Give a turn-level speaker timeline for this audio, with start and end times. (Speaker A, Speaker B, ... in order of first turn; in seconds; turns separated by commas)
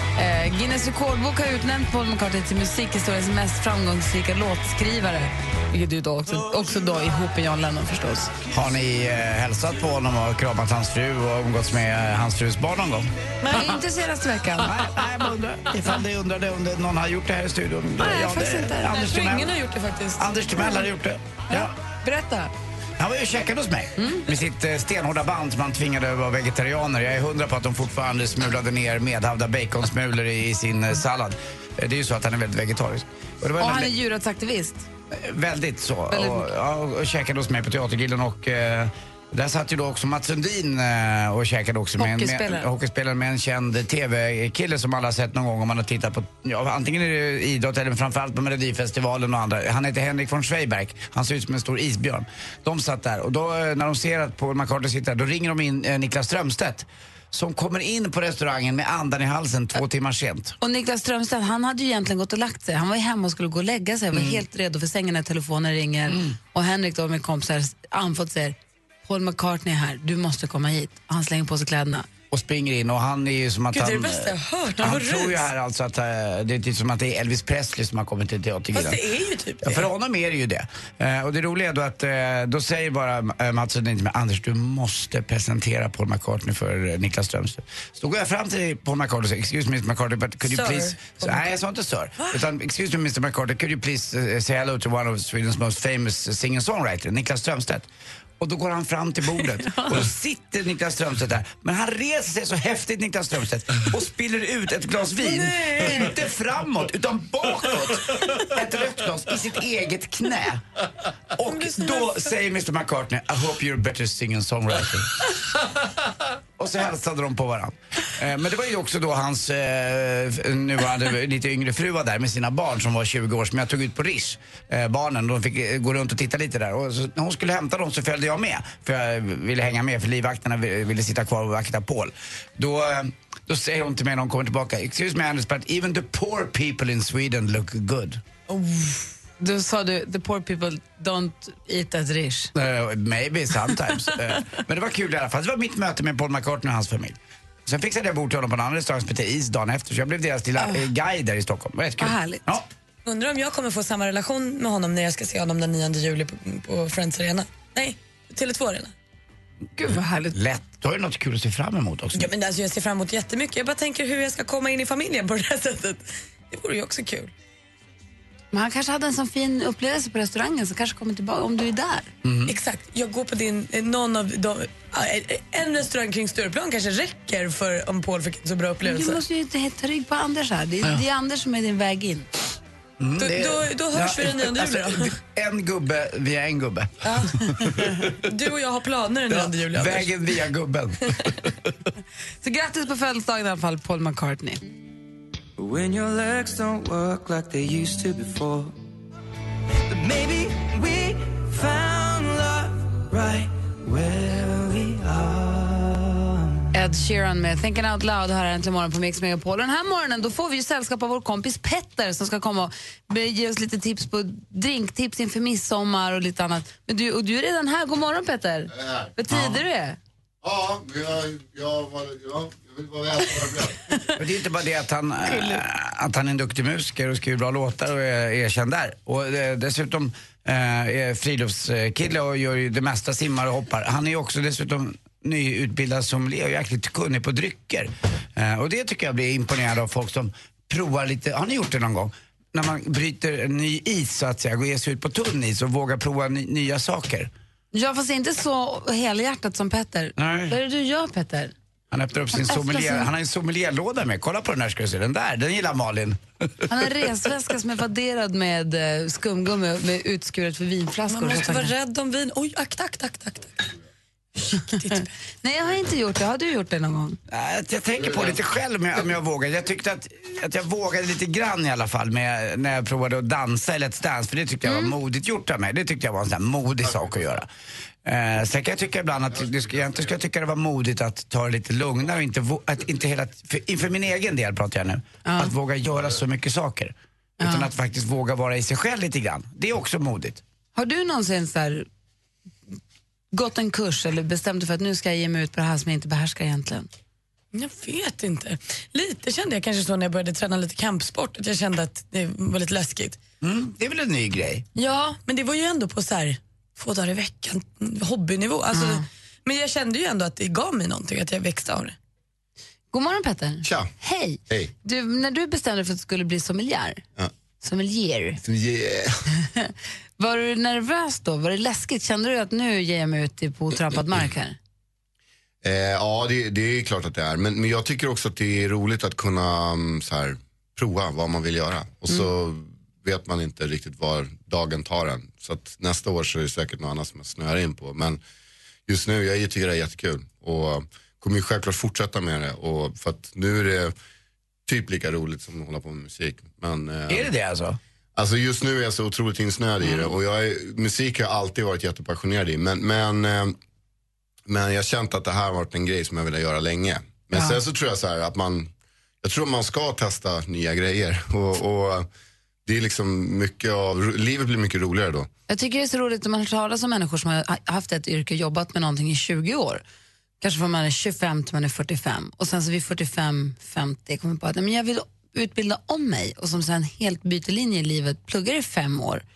Speaker A: 0.1-8.3, Speaker B: 8.5-13.7, Speaker A: 13.4-14.7, Speaker B: 14.6-19.5, Speaker C: 18.0-20.2, Speaker B: 20.2-21.7, Speaker A: 21.5-22.5, Speaker B: 23.0-33.9, Speaker A: 24.0-24.2, Speaker A: 33.6-34.9, Speaker B: 35.1-60.5, Speaker A: 36.1-36.5, Speaker A: 42.0-42.7, Speaker A: 60.6-72.1, Speaker B: 64.1-64.4, Speaker B: 66.1-66.4, Speaker B: 72.3-79.0, Speaker C: 73.7-75.5, Speaker C: 78.7-79.9, Speaker B: 79.6-97.9, Speaker C: 90.5-91.5, Speaker B: 98.4-110.8, Speaker C: 105.2-106.0, Speaker B: 111.3-115.2, Speaker C: 111.4-112.3, Speaker B: 116.6-138.2, Speaker A: 138.5-142.5, Speaker B: 142.5-152.7, Speaker A: 150.6-150.8, Speaker A: 152.0-152.4, Speaker C: 153.1-158.9, Speaker A: 159.8-160.4, Speaker B: 159.9-162.3, Speaker C: 162.1-167.3, Speaker A: 168.5-172.1, Speaker B: 172.2-172.5, Speaker C: 172.5-179.2, Speaker A: 178.8-182.3, Speaker B: 183.0-187.1, Speaker C: 183.2-185.1, Speaker C: 187.0-187.4, Speaker B: 187.6-188.0, Speaker C: 188.1-190.1, Speaker B: 189.3-191.7, Speaker A: 192.4-194.6, Speaker D: 195.6-198.7, Speaker D: 199.9-206.5, Speaker A: 206.7-220.0, Speaker E: 218.7-219.1, Speaker B: 219.3-219.6, Speaker E: 220.4-223.8, Speaker B: 224.2-247.3, Speaker A: 225.3-225.6, Speaker A: 247.7-251.5, Speaker B: 250.2-250.6, Speaker B: 251.9-257.0, Speaker A: 252.3-253.1, Speaker A: 256.7-261.7, Speaker C: 261.1-263.7, Speaker C: 264.4-265.1, Speaker A: 264.5-267.2, Speaker B: 267.3-277.5, Speaker A: 274.6-274.9, Speaker B: 278.0-290.4, Speaker A: 285.2-285.5, Speaker A: 287.4-287.7, Speaker A: 290.7-291.9, Speaker A: 293.3-296.9, Speaker C: 297.5-303.2, Speaker B: 303.4-304.6, Speaker C: 304.8-311.9, Speaker A: 308.7-309.0, Speaker A: 312.9-317.0, Speaker E: 313.6-313.9, Speaker A: 317.6-318.4, Speaker E: 318.4-319.2, Speaker A: 319.5-324.6, Speaker E: 325.6-338.2, Speaker E: 338.9-343.9, Speaker E: 344.6-347.3, Speaker B: 347.1-347.8, Speaker E: 348.1-353.6, Speaker E: 354.5-358.7, Speaker E: 359.2-362.1, Speaker E: 362.6-365.3, Speaker A: 365.5-369.8, Speaker A: 370.4-379.2